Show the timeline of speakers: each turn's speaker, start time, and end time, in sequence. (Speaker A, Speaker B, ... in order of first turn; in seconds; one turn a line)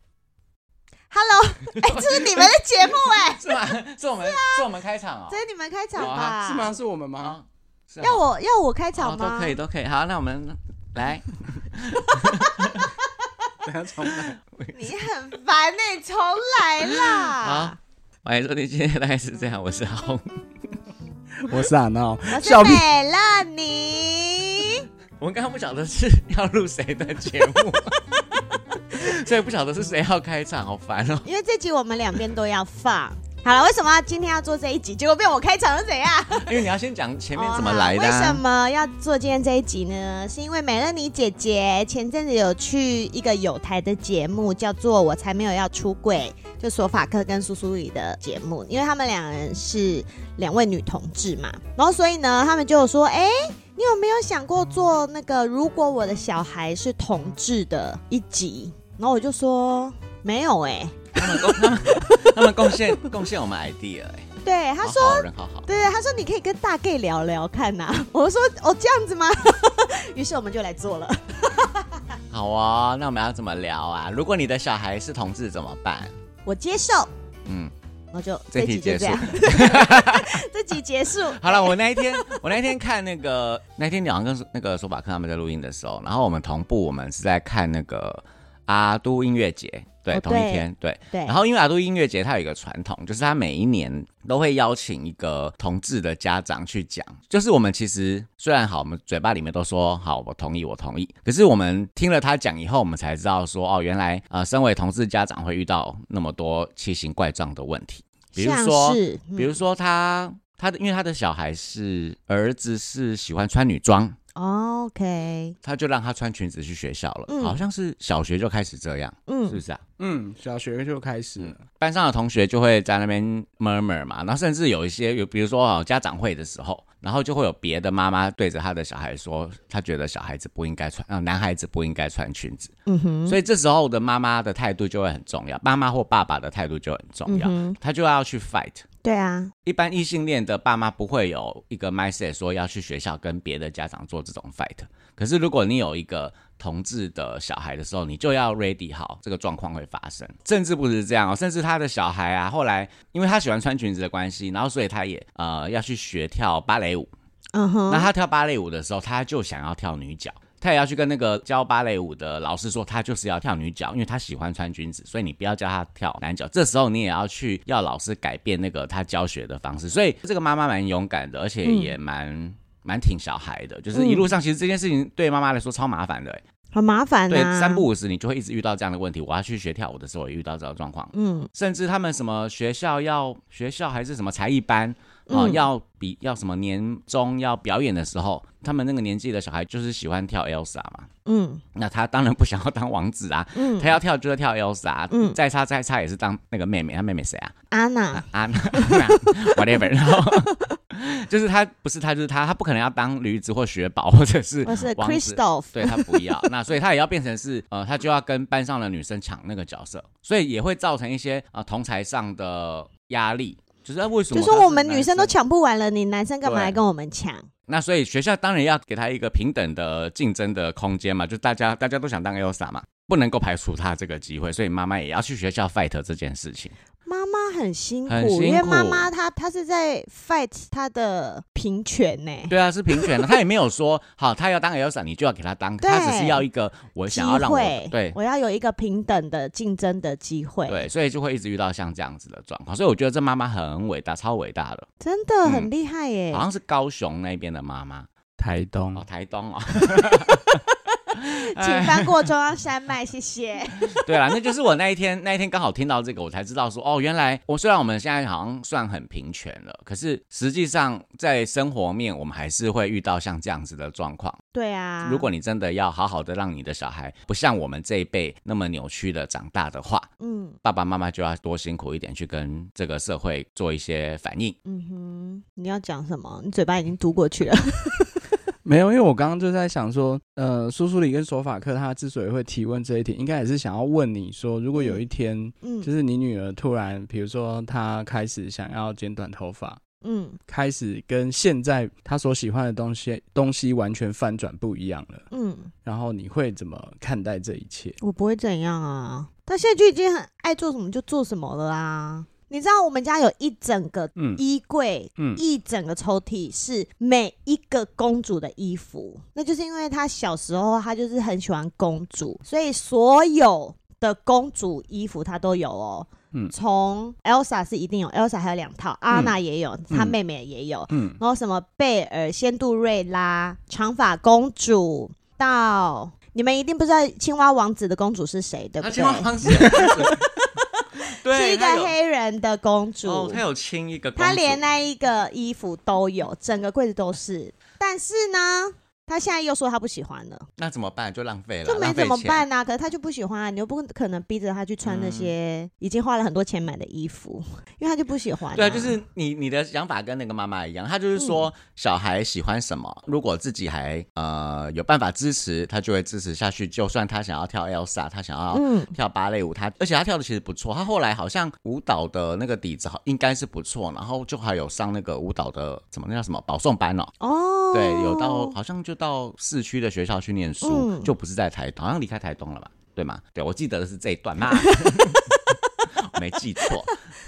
Speaker A: 1.1-3.4
Speaker B: 1.8-5.4
Speaker A: 4.2-4.7
Speaker A: 5.3-6.7
Speaker B: 5.9-6.4
Speaker C: 6.0-7.4
Speaker B: 7.2-8.2
Speaker A: 8.0-9.6
Speaker B: 9.0-12.9
Speaker A: 12.2-12.9
Speaker C: 13.6-14.3
Speaker B: 14.1-14.7
Speaker A: 14.7-17.8
Speaker B: 16.9-20.4
Speaker C: 21.4-22.9
Speaker A: 22.3-24.9
Speaker B: 25.2-28.0
Speaker B: 28.9-31.3
Speaker A: 31.2-36.6
Speaker B: 36.3-38.4
Speaker A: 37.4-62.7
Speaker B: 61.1-64.3
Speaker A: 64.4-72.0
Speaker B: 64.8-65.7
Speaker B: 72.3-76.1
Speaker A: 76.5-77.1
Speaker B: 77.5-77.7
Speaker A: 78.1-82.7
Speaker B: 78.5-80.3
Speaker B: 81.3-114.2
Speaker A: 90.1-91.4
Speaker A: 108.3-109.6
Speaker A: 114.3-115.5
Speaker B: 115.6-119.8
Speaker A: 117.3-117.6
Speaker A: 119.3-119.6
Speaker C: 120.0-121.6
Speaker B: 121.4-132.7
Speaker A: 132.9-133.4
Speaker B: 133.3-138.8
Speaker A: 137.3-137.8
Speaker A: 139.0-139.5
Speaker B: 139.7-157.1
Speaker A: 157.5-158.1
Speaker B: 157.9-176.4
Speaker A: 171.6-171.9
Speaker A: 173.9-174.3
Speaker A: 176.7-177.9
Speaker B: 177.3-191.1
Speaker A: 181.1-181.5
Speaker A: 185.3-185.6
Speaker A: 191.2-191.6
Speaker B: 191.7-197.5
Speaker A: 193.5-193.9
Speaker A: 195.1-195.4
Speaker A: 197.7-200.7
Speaker B: 198.1-215.3
Speaker A: 204.6-206.5
Speaker A: 214.3-217.5
Speaker B: 216.4-216.8
Speaker B: 217.7-226.7
Speaker A: 227.0-233.3
Speaker B: 228.1-229.1
Speaker B: 232.5-238.2
Speaker A: 235.8-236.4
Speaker A: 237.1-240.9
Speaker B: 240.7-244.9
Speaker A: 245.0-246.4
Speaker B: 245.4-245.7
Speaker B: 246.3-248.1
Speaker C: 248.4-249.0
Speaker B: 248.9-250.5
Speaker A: 251.1-254.4
Speaker B: 251.2-252.3
Speaker B: 253.9-264.4
Speaker A: 264.5-265.3
Speaker B: 265.0-270.1
Speaker A: 270.2-270.6
Speaker B: 270.6-274.6
Speaker A: 274.6-278.2
Speaker C: 278.6-289.8
Speaker A: 284.8-285.0
Speaker A: 285.6-285.9
Speaker A: 290.0-290.4
Speaker C: 290.5-295.2
Speaker A: 295.3-295.7
Speaker C: 295.8-298.0
Speaker A: 298.0-333.4
Speaker C: 319.9-320.1
Speaker C: 320.9-321.2
Speaker B: 328.8-330.1
Speaker C: 329.6-330.1
Speaker B: 331.2-331.9
Speaker B: 333.0-334.6
Speaker A: 334.1-340.5
Speaker B: 340.6-342.4
Speaker A: 341.6-349.0
Speaker B: 344.8-345.3
Speaker B: 348.5-367.1
Speaker A: 351.1-351.4
Speaker A: 358.5-358.9
Speaker A: 367.2-368.5
Speaker B: 367.7-375.3
Speaker A: 370.6-371.1
Speaker A: 374.5-375.2
Speaker B: 376.0-376.9